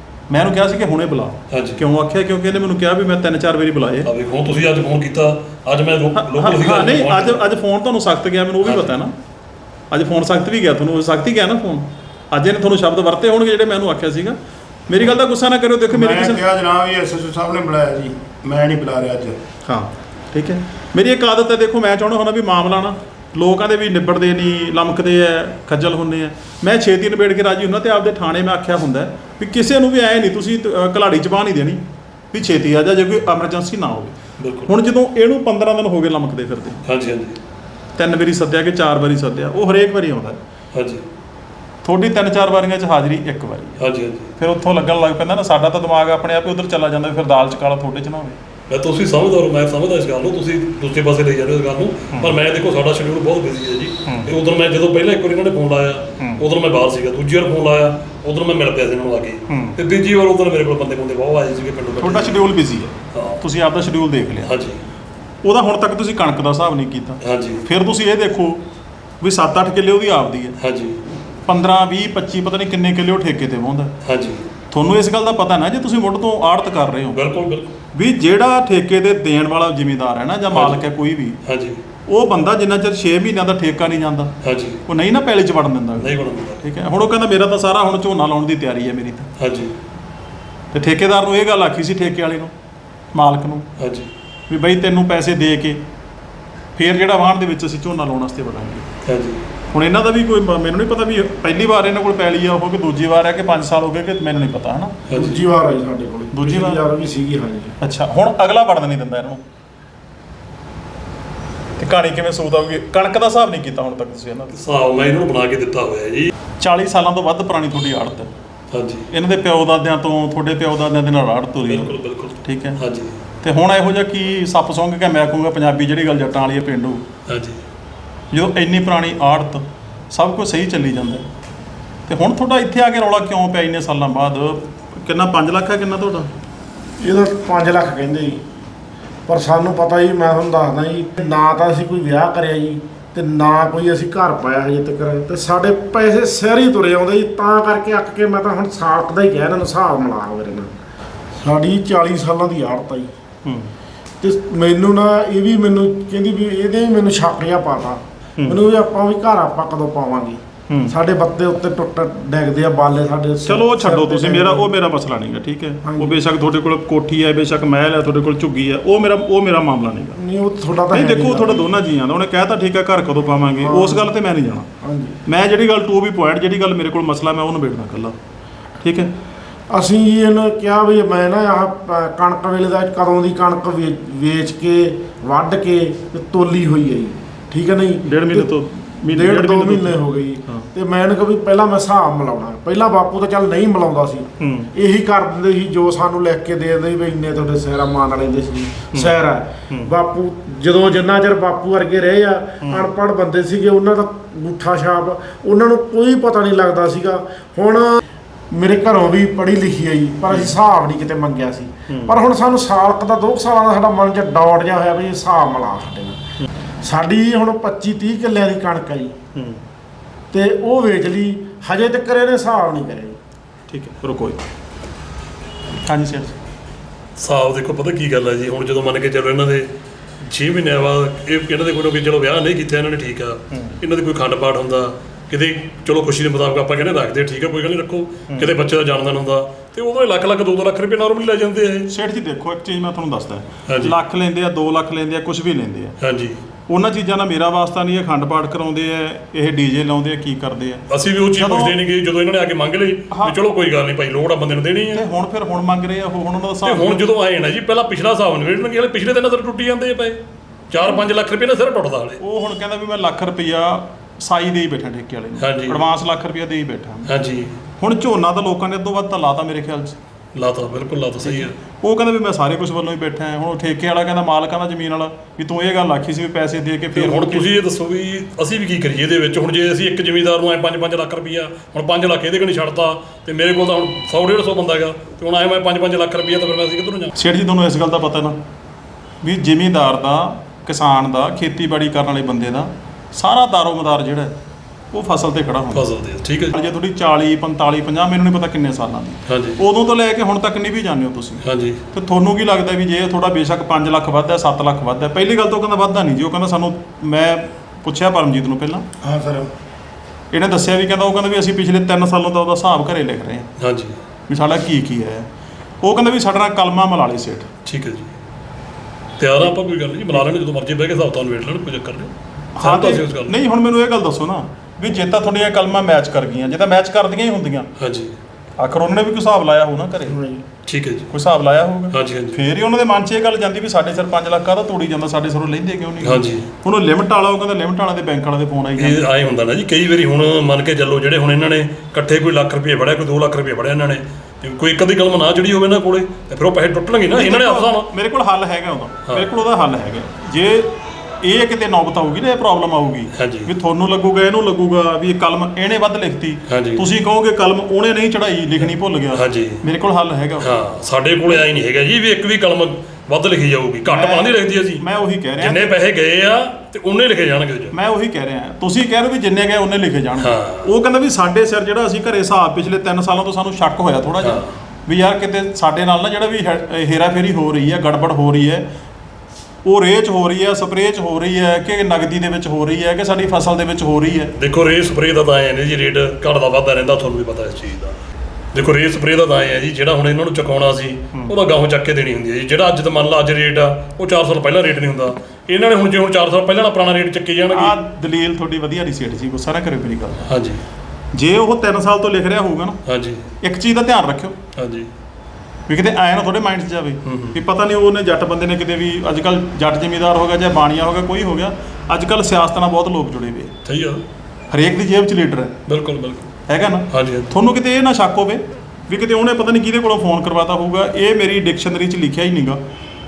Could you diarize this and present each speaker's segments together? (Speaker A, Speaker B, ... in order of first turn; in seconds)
Speaker A: 0.3-4.1, 6.1-9.1, 9.9-14.4, 14.9-16.4, 19.6-34.1, 34.7-36.8, 38.0-40.4, 41.8-43.8, 44.4-48.4, 54.0-54.3, 59.5-59.8, 62.0-64.5, 65.4-68.6, 69.2-70.5, 71.5-73.9, 74.7-77.2, 77.9-81.4, 82.1-84.3, 84.9-89.3, 90.7-92.5, 93.1-93.7, 94.5-95.8, 96.8-98.9, 99.7-105.0, 106.3-106.8, 107.8-109.4, 111.8-114.5, 116.6-118.3, 119.1-122.8, 123.4-127.0, 128.3-131.2, 132.1-136.3, 153.4-153.7, 163.5-170.2, 170.9-174.7, 175.2-178.2, 178.8-179.1, 188.0-190.7, 194.4-194.7, 202.6-202.9, 210.3-210.5, 211.9-212.2, 219.3-219.6, 223.7-224.4, 225.8-226.3, 241.9-246.0, 246.7-250.8, 251.3-251.8, 254.9-257.0, 262.2-267.1, 267.8-270.0, 271.2-277.5, 287.2-288.4, 289.2-294.3, 294.9-295.9, 296.5-308.9, 310.3-313.5, 314.3-315.3, 315.8-317.5, 322.6-327.7, 328.6-330.2, 331.1-339.1, 347.1-360.6, 363.9-365.7, 367.7-378.7, 379.6-384.3, 397.5-400.3, 401.1-402.8, 403.4-404.4, 405.7-413.5, 414.5-415.6, 416.5-422.6
Speaker B: 1.5-1.8, 4.0-7.5, 8.6-8.9, 34.4-34.7, 36.9-37.4, 40.7-41.1, 43.8-44.3, 48.7-62.4, 63.1-63.4, 64.4-64.8, 67.2-67.6, 70.6-71.0, 74.0-74.5, 77.1-77.7, 80.5-80.8, 81.4-81.8, 84.4-84.8, 86.0-86.6, 89.4-89.8, 93.8-94.1, 99.0-99.4, 105.1-105.4, 114.5-116.3, 118.7-119.1, 121.7-123.2, 127.3-127.6, 227.2-229.7, 230.2-241.9, 243.7-243.9, 246.0-246.4, 250.9-255.0, 256.6-260.2, 260.7-262.2, 265.4-265.8, 267.1-267.6, 270.3-271.5, 276.9-287.1, 295.7-296.5, 299.3-299.6, 301.4-301.8, 313.6-314.0, 317.6-318.1, 319.2-323.3, 327.8-328.1, 330.7-331.1, 331.9-332.4, 336.0-336.5, 338.8-347.9, 353.1-353.5, 356.5-356.8, 359.1-359.6, 360.4-364.8, 365.4-367.8, 370.2-370.7, 374.2-374.5, 384.4-388.0, 388.5-397.8, 400.3-400.6, 402.9-403.3, 404.6-404.9, 407.0-407.4, 413.6-414.0, 415.7-416.3, 416.9-417.3
Speaker C: 15.9-19.4, 309.0-309.5
Speaker D: 105.1-107.8, 137.0-138.4, 139.3-150.7, 151.4-153.1, 154.2-164.7, 165.8-166.2, 170.2-171.7, 173.6-174.1, 174.8-175.2, 179.7-188.5, 189.1-208.0, 208.5-216.2, 216.8-219.2, 220.3-223.2, 330.1-330.4